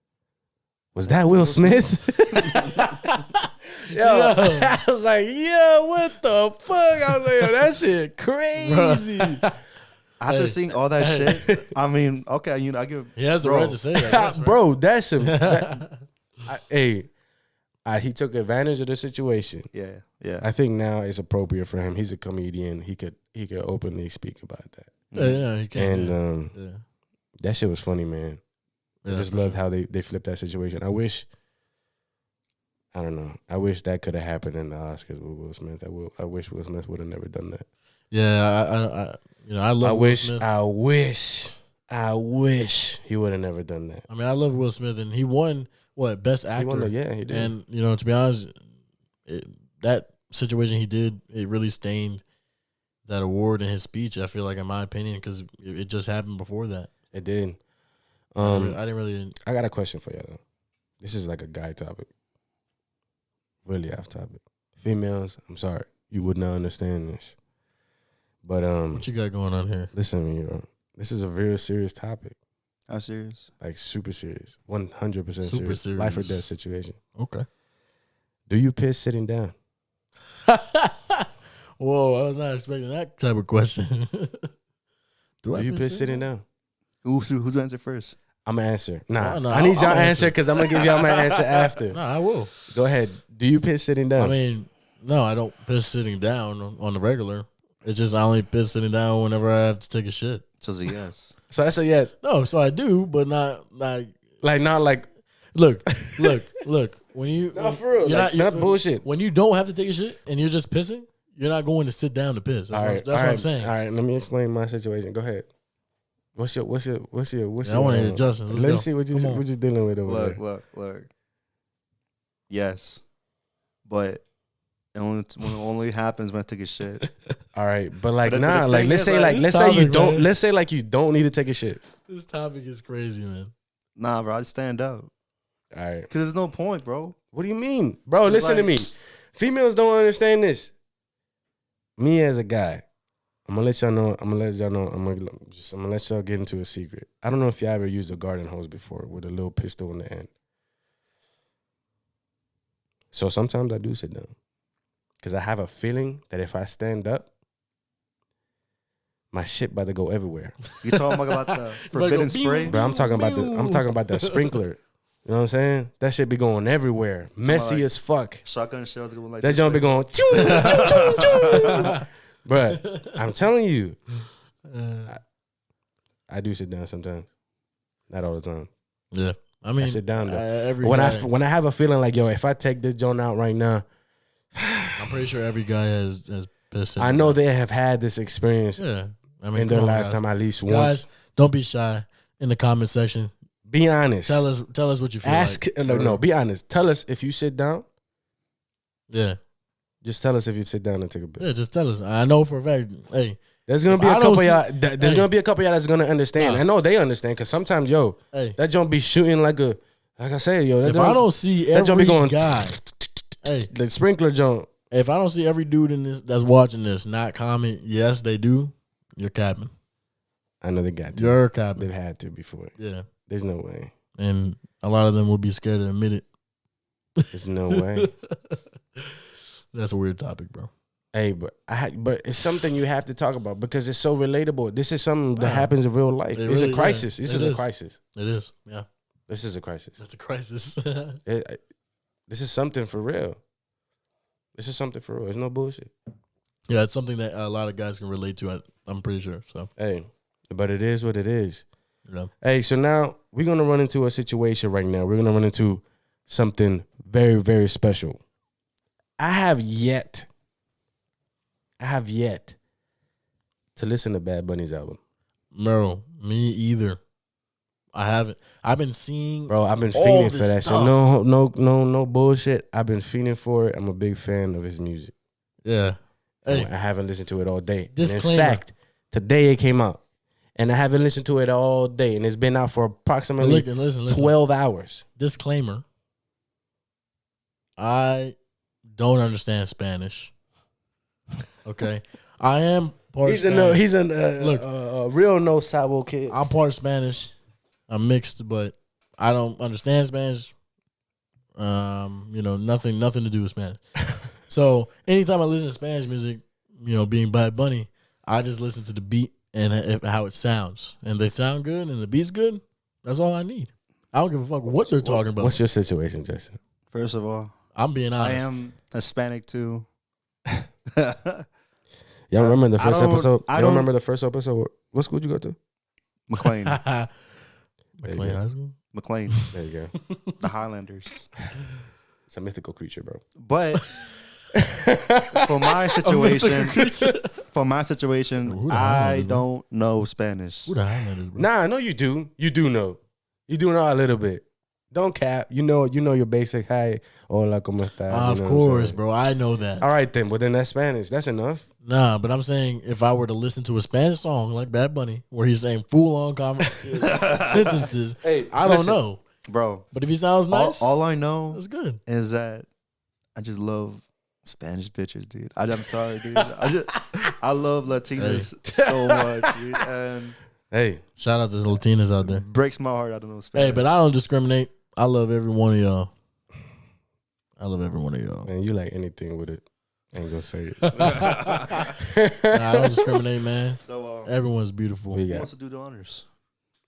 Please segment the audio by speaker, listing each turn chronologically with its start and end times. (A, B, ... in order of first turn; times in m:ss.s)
0:00.9-0:02.9 A
0:01.4-0:01.8 B
0:02.3-0:02.7 B
0:02.5-0:04.7 C
0:03.8-0:09.5 A
0:07.0-0:07.5 C
0:08.6-0:09.6 C
0:10.2-0:13.8 B
0:10.3-0:11.4 C
0:13.2-0:14.6 C
0:13.9-0:15.8 A
0:15.2-0:16.0 C
0:16.4-0:17.1 A
0:17.8-0:19.7 A
0:19.7-0:20.5 B
0:20.4-0:25.0 A
0:25.1-0:25.4 B
0:25.1-0:26.8 C
0:25.7-0:26.5 A
0:27.4-0:28.4 A
0:29.0-0:29.6 C
0:29.1-0:31.3 A
0:32.9-0:37.6 A
0:38.1-0:40.5 C
0:39.8-0:44.0 A
0:44.1-0:48.6 C
0:46.6-0:47.5 A
0:49.2-0:52.2 C
0:53.0-0:56.9 C
0:57.1-0:57.6 A
0:58.3-0:58.8 A
0:58.4-0:59.4 C
0:59.4-1:00.4 A
1:01.0-1:02.1 A
1:03.6-1:07.4 A
1:08.4-1:09.1 A
1:08.9-1:09.9 C
1:09.9-1:12.4 A
1:12.9-1:13.5 B
1:13.6-1:17.0 A
1:15.4-1:16.4 C
1:17.1-1:17.4 C
1:18.5-1:19.5 A
1:20.4-1:21.3 C
1:21.8-1:24.5 C
1:25.4-1:26.1 C
1:25.5-1:26.4 A
1:27.0-1:28.2 B
1:28.4-1:32.0 A
1:29.2-1:30.4 C
1:31.9-1:32.5 C
1:32.7-1:34.4 A
1:34.2-1:40.4 C
1:40.6-1:41.4 B
1:41.5-1:42.1 A
1:42.2-1:44.2 C
1:44.4-1:45.1 A
1:45.5-1:53.7 C
1:45.9-1:46.4 A
1:47.5-1:49.0 A
1:52.7-1:55.5 A
1:56.4-2:00.4 A
1:57.6-1:59.4 C
2:00.0-2:01.1 B
2:02.5-2:03.0 B
2:03.8-2:04.2 B
2:04.9-2:07.0 B
2:07.5-2:11.8 A
2:08.2-2:09.4 B
2:09.2-2:10.3 C
2:12.0-2:13.5 C
2:14.0-2:15.1 B
2:15.7-2:16.1 A
2:16.1-2:17.2 B
2:17.3-2:20.7 A
2:18.2-2:18.7 B
2:22.0-2:22.8 A
2:23.5-2:30.3 A
2:33.1-2:34.3 A
2:35.2-2:37.3 A
2:39.3-2:40.6 A
2:40.8-2:42.8 B
2:40.9-2:44.5 C
2:42.7-2:48.4 A
2:47.4-2:47.9 B
2:48.4-2:51.9 B
2:49.4-2:54.0 A
2:50.3-2:52.0 C
2:52.7-2:53.2 C
2:54.6-2:55.1 C
2:56.3-2:57.3 A
2:58.1-2:58.7 A
2:59.1-3:01.3 C
2:59.8-3:03.8 A
3:04.5-3:05.2 A
3:05.0-3:07.4 C
3:07.0-3:08.8 A
3:08.8-3:13.3 C
3:09.5-3:11.0 A
3:13.7-3:14.4 A
3:14.2-3:16.2 C
3:15.2-3:17.8 A
3:19.1-3:19.4 C
3:20.0-3:21.5 A
3:21.4-3:25.3 C
3:23.7-3:34.7 A
3:26.4-3:26.6 C
3:28.3-3:28.6 C
3:30.8-3:32.8 C
3:33.4-3:33.7 C
3:34.9-3:39.7 C
3:40.6-3:42.7 A
3:41.1-3:41.9 C
3:42.8-3:43.1 C
3:43.2-3:43.9 A
3:44.2-3:46.3 C
3:47.2-3:49.1 C
3:47.3-3:48.1 A
3:49.7-3:50.7 C
3:51.1-3:58.0 A
3:55.4-3:55.7 C
3:56.3-3:58.9 C
3:59.3-4:00.0 A
4:00.0-4:01.2 C
4:01.2-4:01.6 A
4:02.3-4:03.4 A
4:04.5-4:05.9 A
4:06.7-4:09.7 C
4:09.8-4:11.6 A
4:12.4-4:18.2 A
4:19.2-4:20.3 A
4:21.8-4:22.6 A
4:23.8-4:25.0 A
4:25.5-4:27.0 C
4:27.9-4:31.0 C
4:29.5-4:35.1 A
4:35.6-4:36.7 C
4:36.4-4:40.0 A
4:37.9-4:38.6 C
4:40.6-4:45.0 A
4:43.4-4:44.4 C
4:45.2-4:45.8 C
4:47.8-4:48.4 C
4:48.9-4:50.3 C
4:51.6-4:53.8 C
4:53.2-4:56.4 A
4:54.4-4:54.6 C
4:56.3-4:57.3 C
4:57.9-5:00.5 C
5:01.6-5:03.8 C
5:04.4-5:15.6 C
5:14.7-5:16.6 A
5:16.9-5:17.5 B
5:17.7-5:18.5 C
5:18.2-5:19.8 B
5:20.9-5:21.4 B
5:22.3-5:25.6 A
5:22.3-5:23.9 B
5:26.3-5:26.8 B
5:26.4-5:27.1 C
5:28.0-5:28.8 C
5:28.0-5:28.4 A
5:28.9-5:29.5 B
5:29.5-5:29.9 A
5:30.1-5:30.4 C
5:30.4-5:31.3 B
5:32.3-5:33.2 A
5:33.4-5:34.0 B
5:34.5-5:35.8 A
5:35.3-5:40.7 B
5:36.0-5:37.3 C
5:36.8-5:37.1 A
5:38.4-5:39.4 C
5:40.7-5:41.5 C
5:41.4-5:49.0 A
5:48.1-5:49.9 C
5:49.8-5:51.7 A
5:51.8-5:59.2 C
5:56.8-5:57.2 A
5:56.9-5:57.9 B
5:58.2-5:59.0 A
5:59.4-5:59.9 B
5:59.9-6:01.0 C
6:00.5-6:02.7 B
6:01.5-6:02.0 C
6:03.4-6:10.4 B
6:06.3-6:07.3 A
6:08.2-6:08.5 C
6:08.7-6:09.6 A
6:10.7-6:11.0 A
6:11.2-6:12.4 C
6:12.2-6:13.8 B
6:13.5-6:16.1 C
6:17.6-6:18.5 C
6:18.4-6:23.2 A
6:20.9-6:21.9 C
6:21.1-6:21.8 B
6:22.5-6:25.2 C
6:23.8-6:24.3 B
6:25.1-6:25.5 A
6:25.3-6:26.2 B